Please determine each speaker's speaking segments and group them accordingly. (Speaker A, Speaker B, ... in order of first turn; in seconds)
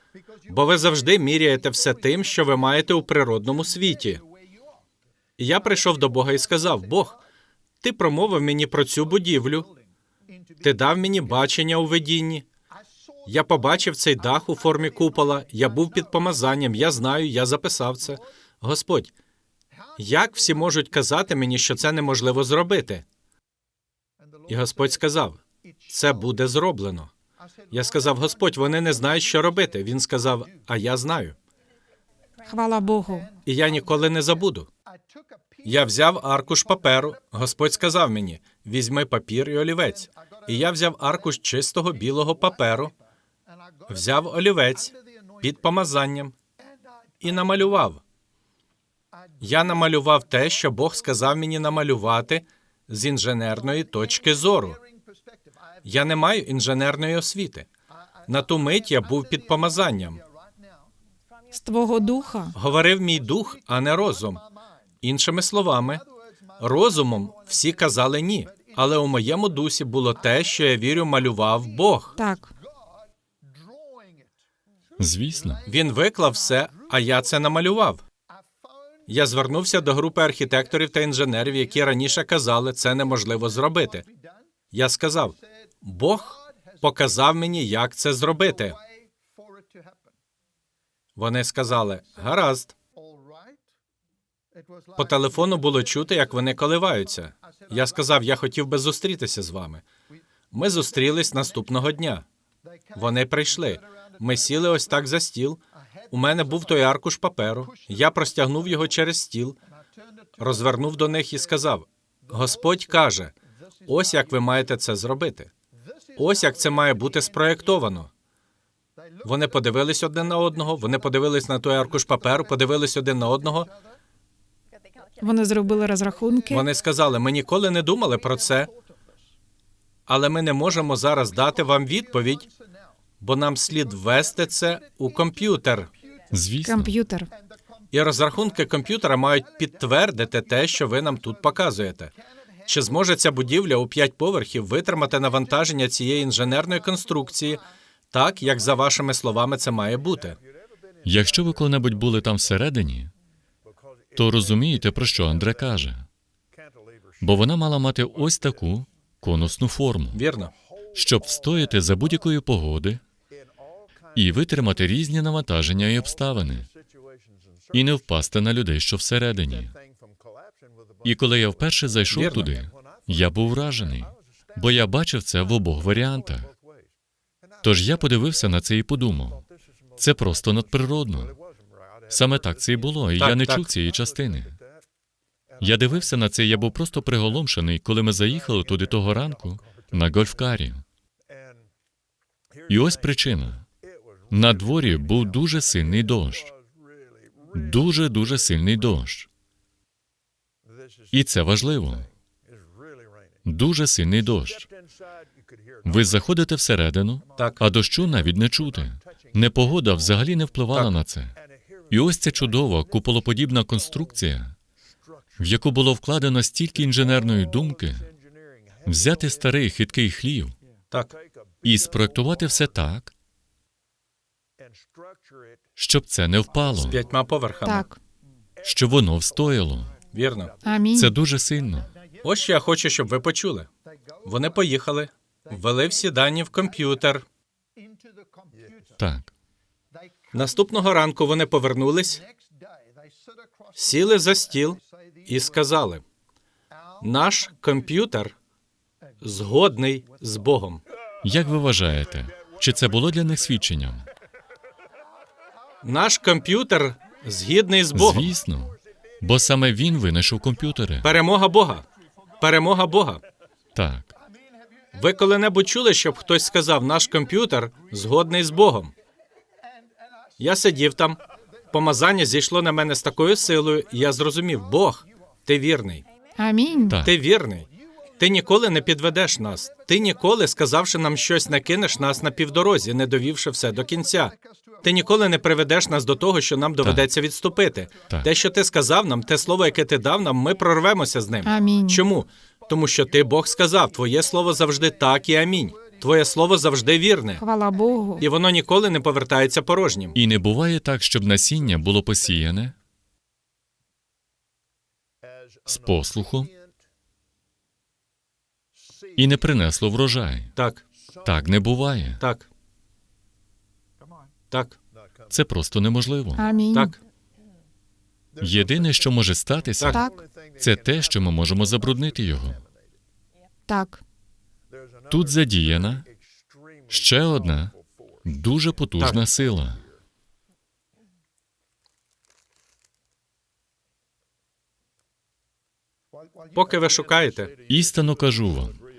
Speaker A: 0.5-4.2, 5.4-7.2, 7.8-9.7, 10.6-12.4, 13.2-19.1, 20.0-23.0, 24.5-27.1, 27.7-31.3, 33.5-34.7, 35.6-42.9, 43.9-46.3, 47.2-48.0, 49.4-54.8, 55.8-57.7, 58.3-60.2, 62.5-64.4, 65.0-66.0, 66.6-72.2, 75.7-78.0, 79.1-84.1, 84.7-88.8, 91.2-92.7, 95.0-99.8, 100.5-102.2, 102.9-109.6, 110.4-113.3, 113.9-115.5, 116.2-118.1, 119.2-123.7, 126.5-128.7, 130.1-132.5, 133.2-135.9, 137.9-142.1, 142.7-150.4, 160.1-160.5, 172.1-172.5, 183.2-183.7, 207.4-207.6, 226.8-227.8, 230.1-230.5, 232.2-233.7, 234.2-237.2, 240.3-242.2, 243.8-246.0, 247.0-248.3, 249.2-250.8, 255.8-258.3, 261.0-261.8, 262.4-263.2, 264.9-268.9, 270.4-271.2, 271.7-276.0, 277.0-277.7, 278.2-297.4, 298.2-300.2, 310.6-310.8, 312.2-312.4, 314.5-314.8, 316.7-317.0, 336.5-337.5
Speaker B: 32.5-33.3, 61.5-62.5, 72.2-72.5, 125.2-126.7, 136.6-137.3, 227.6-228.0, 230.6-231.1, 276.4-277.0, 291.4-292.0, 297.4-298.2, 316.4-316.9, 319.9-320.2, 323.7-324.0
Speaker C: 75.0-75.6, 136.3-136.9, 151.0-153.1, 154.2-156.1, 157.2-160.2, 160.9-163.0, 164.1-166.7, 167.7-169.7, 171.0-176.5, 177.6-179.4, 180.0-181.4, 182.1-184.6, 185.6-190.8, 192.7-193.7, 194.3-196.5, 197.5-199.3, 201.1-202.1, 203.4-204.7, 205.8-211.3, 211.9-214.6, 215.4-218.1, 218.8-220.5, 221.6-223.1, 225.8-227.0, 228.6-229.9, 230.9-231.9, 239.0-239.3, 251.2-254.1, 257.9-261.1, 263.7-264.1, 276.9-277.2, 286.8-287.1, 300.1-302.7, 305.7-306.5, 309.1-310.5, 311.2-312.2, 315.3-316.4, 318.4-320.1, 320.6-322.6, 325.1-326.1, 326.9-327.7, 328.2-329.8, 337.7-338.8